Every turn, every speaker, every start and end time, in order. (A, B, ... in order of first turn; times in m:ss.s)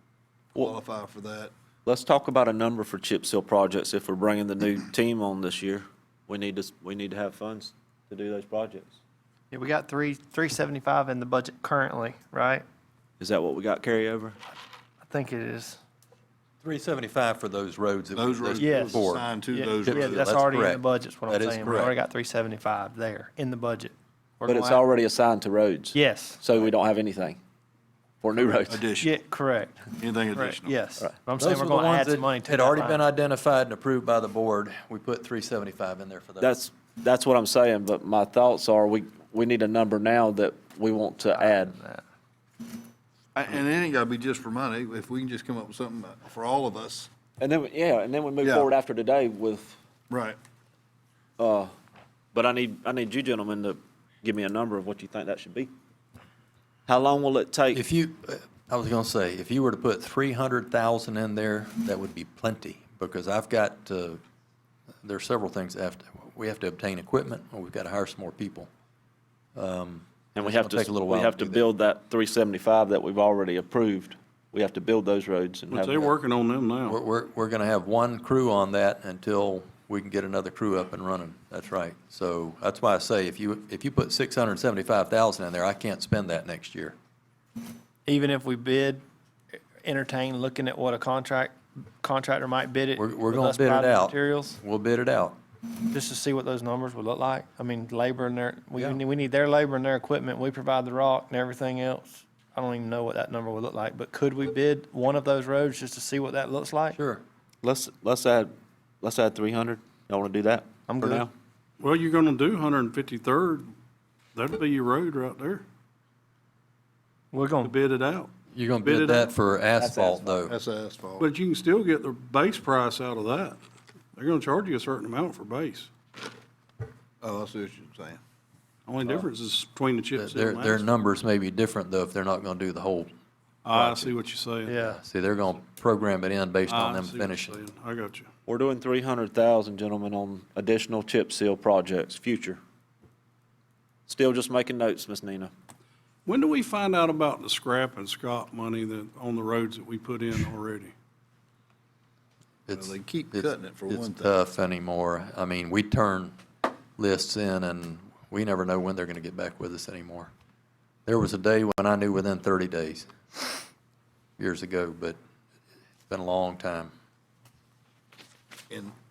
0:00.5-0:01.5 A
0:01.8-0:09.0 B
0:09.5-0:12.6 C
0:13.2-0:14.4 B
0:15.0-0:15.8 C
0:16.6-0:19.3 D
0:18.2-0:20.3 A
0:18.6-0:24.8 C
0:19.8-0:21.9 D
0:24.4-0:27.4 B
0:25.9-0:26.4 C
0:28.2-0:28.8 B
0:28.7-0:29.1 A
0:29.0-0:33.0 C
0:30.0-0:30.7 A
0:31.4-0:36.5 D
0:36.4-0:41.8 B
0:41.3-0:42.0 C
0:43.3-0:47.1 A
0:47.4-0:49.8 B
0:48.4-0:48.7 A
0:50.1-0:50.4 A
0:51.4-0:51.7 B
0:52.3-0:55.7 B
0:56.9-0:57.8 B
0:57.7-1:04.2 D
1:05.0-1:08.7 D
1:09.6-1:11.6 D
1:10.4-1:16.1 B
1:15.7-1:17.0 E
1:16.9-1:27.0 D
1:28.0-1:29.0 C
1:29.8-1:34.6 C
1:33.0-1:35.4 D
1:35.9-1:47.0 C
1:46.9-1:47.2 D
1:47.6-1:51.3 B
1:50.9-1:51.3 C
1:51.8-1:53.7 E
1:54.3-1:55.6 E
1:57.3-1:57.7 C
1:57.6-1:58.3 E
1:58.5-2:00.5 D
1:58.8-1:59.3 E
1:59.8-2:00.4 B
2:00.5-2:01.2 A
2:01.2-2:03.6 E
2:04.1-2:05.9 E
2:07.2-2:08.2 A
2:08.8-2:10.8 E
2:10.2-2:13.1 D
2:13.6-2:14.8 E
2:13.7-2:14.1 D
2:14.7-2:15.0 C
2:14.7-2:17.6 D
2:16.7-2:18.3 E
2:18.4-2:22.6 B
2:24.1-2:25.5 B
2:26.2-2:30.9 E
2:32.7-2:36.4 D
2:32.7-2:34.3 A
2:37.0-2:40.3 D
2:41.0-2:43.5 D
2:44.4-2:45.2 D
2:46.1-2:46.9 D